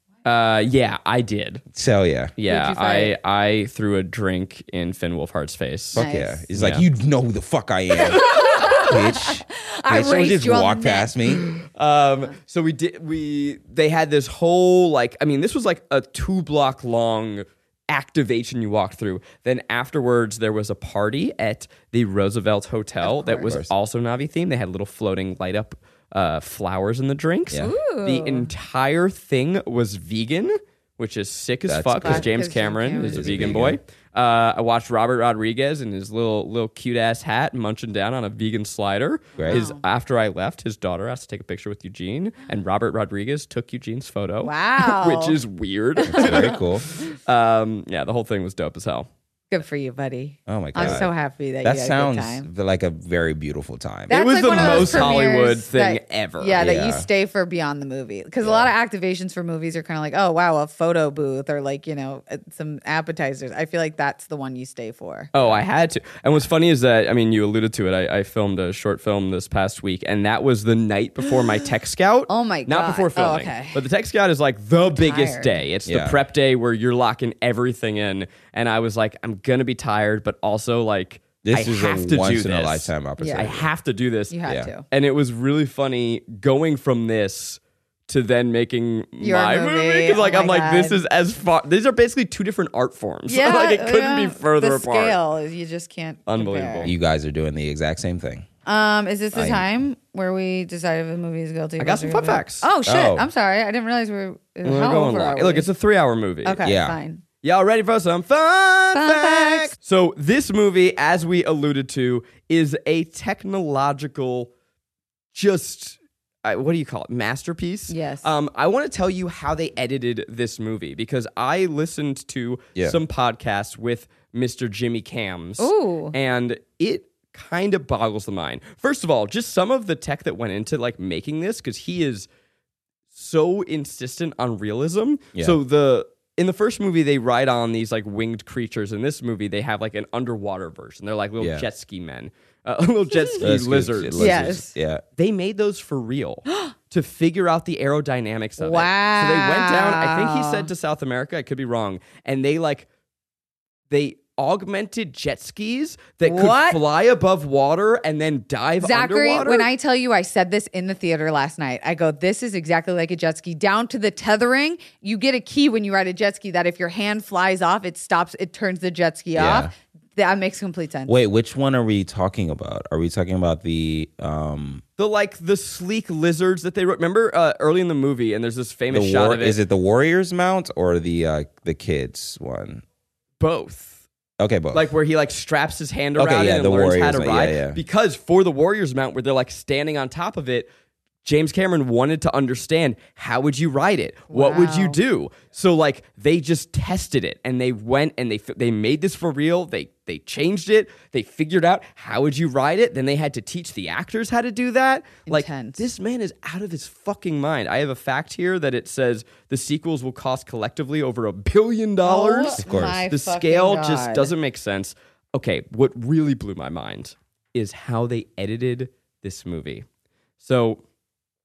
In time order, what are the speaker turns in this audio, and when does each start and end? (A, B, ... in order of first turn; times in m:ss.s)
0:00.2-0:01.6 A
0:01.7-0:02.3 B
0:02.4-0:06.0 A
0:02.5-0:03.2 C
0:05.9-0:11.5 B
0:06.0-0:06.4 C
0:06.6-0:06.8 A
0:08.0-0:11.1 C
0:11.4-0:49.1 A
0:23.0-0:23.6 C
0:23.4-0:23.7 B
0:27.6-0:28.5 C
0:31.7-0:32.3 B
0:32.0-0:33.7 C
0:33.0-0:33.8 B
0:39.4-0:39.6 B
0:39.5-0:39.8 C
0:44.4-0:45.4 C
0:46.0-0:46.6 C
0:46.1-0:46.8 B
0:49.5-0:52.5 C
0:50.5-0:51.1 B
0:50.8-0:51.1 A
0:51.6-0:55.1 B
0:54.1-0:56.6 A
0:54.1-1:05.3 C
0:56.6-0:57.1 B
1:05.3-1:24.4 A
1:12.3-1:13.8 C
1:14.9-1:15.6 C
1:15.9-1:16.2 B
1:21.4-1:23.7 B
1:23.2-1:23.5 C
1:24.3-1:24.8 C
1:24.9-1:35.2 A
1:29.2-1:31.0 C
1:33.3-1:36.9 C
1:36.3-1:36.9 A
1:36.8-1:38.5 B
1:38.7-1:45.7 C
1:39.3-1:39.6 B
1:41.8-1:42.7 A
1:42.8-1:43.3 B
1:44.6-1:46.6 A
1:46.4-1:47.2 C
1:46.6-1:47.0 B
1:47.4-1:54.5 A
1:48.9-1:49.8 C
1:55.3-2:12.3 A
1:57.9-1:58.3 C
2:05.6-2:06.2 C
2:13.1-2:24.6 A
2:21.4-2:21.7 B
2:23.4-2:25.0 B
2:24.2-2:24.7 C
2:25.2-2:32.9 A
2:26.5-2:26.7 C
2:28.6-2:30.7 C
2:33.9-2:39.7 A
2:36.2-2:36.8 C
2:38.8-2:51.1 C
2:49.4-2:49.7 B
2:51.1-2:54.8 B
2:55.0-2:59.6 A
2:58.9-3:02.8 B
3:03.4-3:04.0 A
3:04.4-3:04.9 B
3:04.7-3:10.7 A
3:06.2-3:07.8 B
3:11.2-3:39.8 A
3:14.3-3:15.0 C
3:25.3-3:25.8 C
3:32.0-3:34.3 C
3:32.6-3:33.0 B
3:40.4-3:40.8 A